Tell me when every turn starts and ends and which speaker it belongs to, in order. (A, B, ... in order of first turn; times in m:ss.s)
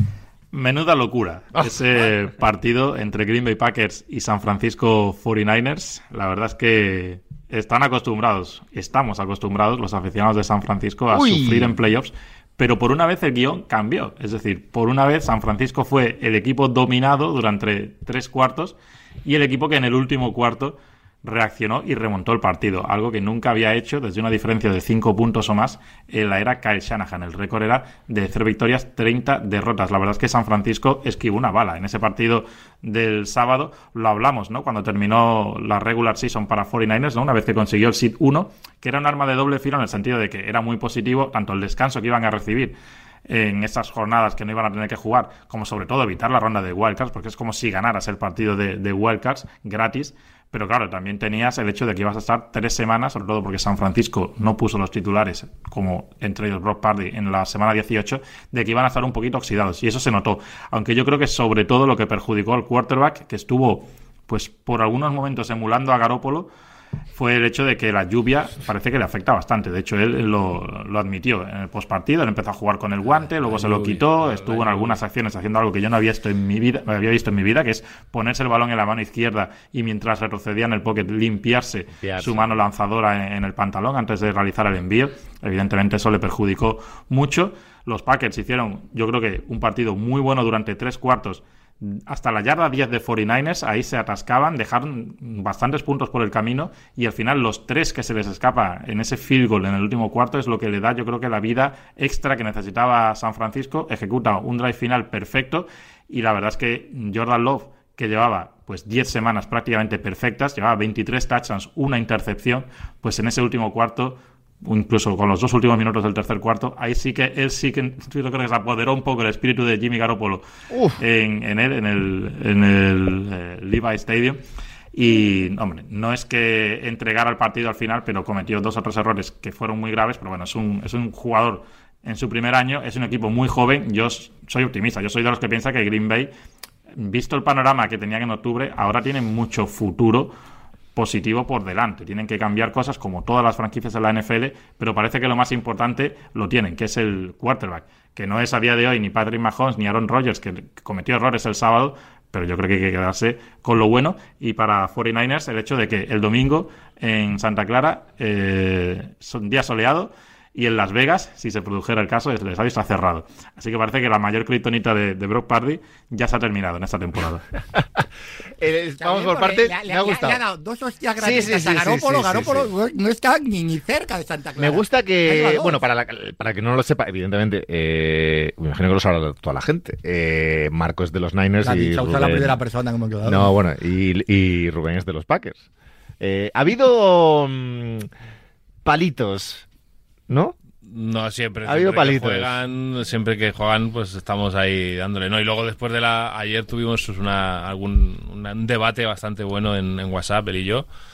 0:00.5-1:06.5 A
0:11.1-0:11.8 B
1:07.1-2:00.4 A
1:13.1-1:15.0 C
1:22.0-1:22.6 B
2:00.7-2:01.0 B
2:01.0-2:04.4 A
2:04.9-2:16.3 A
2:17.0-2:20.4 A
2:21.0-2:47.4 A
2:48.6-2:50.4 B
2:49.0-2:55.8 D
2:51.2-2:52.7 B
2:54.6-3:02.6 B
3:01.6-3:03.6 D
3:03.2-3:05.6 B
3:06.2-3:08.1 B
3:08.8-3:09.6 B
3:10.3-3:10.6 B
3:10.8-3:20.9 C
3:11.6-3:12.6 B